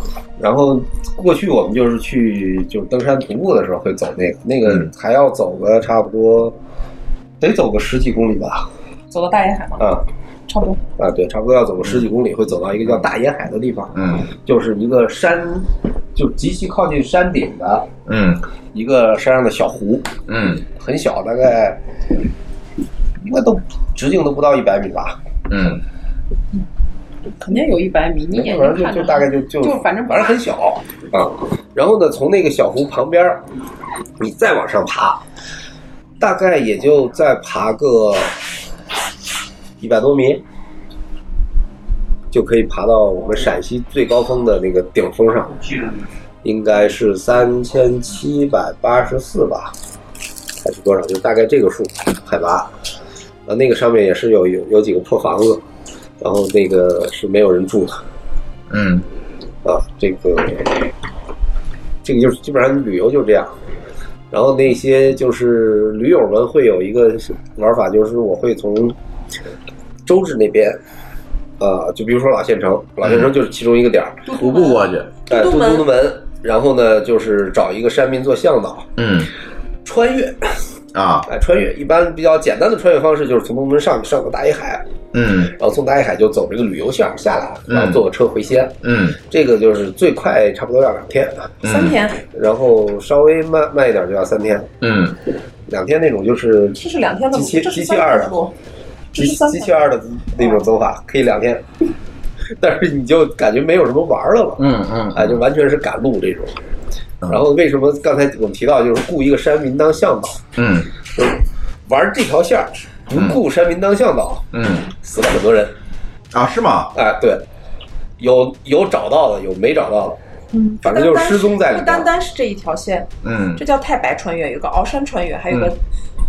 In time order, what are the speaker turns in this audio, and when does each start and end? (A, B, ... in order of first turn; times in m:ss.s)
0:00.4-0:06.6 A
0:04.6-0:04.9 B
0:07.4-0:08.7 A
0:09.1-0:09.9 C
0:09.8-0:10.0 A
0:10.5-0:10.8 C
0:11.0-0:17.9 A
0:13.9-0:14.3 B
0:18.1-0:18.4 B
0:18.7-0:21.8 A
0:20.3-0:20.6 B
0:23.2-0:25.2 A
0:25.5-0:25.8 B
0:27.4-0:30.3 C
0:28.3-0:33.4 A
0:34.2-0:35.2 A
0:36.2-0:38.4 A
0:39.8-0:40.4 A
0:42.3-0:45.7 A
0:46.4-0:49.7 A
0:50.6-0:52.7 A
0:53.5-0:55.6 A
0:56.2-0:58.0 A
0:58.7-0:59.1 B
0:59.6-1:00.8 A
1:02.0-1:03.5 A
1:04.3-1:09.0 A
1:10.0-1:10.8 A
1:11.6-1:14.2 A
1:13.0-1:13.3 B
1:14.3-1:15.9 C
1:14.4-1:15.1 B
1:15.3-1:18.9 A
1:19.0-1:19.3 B
1:19.8-1:20.6 A
1:20.9-1:21.3 B
1:21.3-1:24.8 A
1:25.1-1:25.5 B
1:25.5-1:31.6 A
1:27.7-1:28.1 B
1:28.8-1:29.2 B
1:31.6-1:32.0 B
1:31.6-1:32.2 C
1:32.2-1:34.7 A
1:34.8-1:35.2 B
1:35.7-1:36.8 A
1:36.8-1:38.5 C
1:37.3-1:38.4 A
1:39.1-1:39.8 C
1:39.2-1:41.6 A
1:42.6-1:46.6 A
1:44.6-1:45.4 B
1:47.3-1:50.5 A
1:50.6-1:50.9 B
1:51.1-1:55.7 A
1:53.1-1:53.4 B
1:54.5-1:54.9 B
1:56.3-1:56.9 B
1:57.0-1:57.4 A
1:58.2-2:00.2 A
2:00.5-2:05.8 C
2:00.8-2:02.1 A
2:03.2-2:03.6 B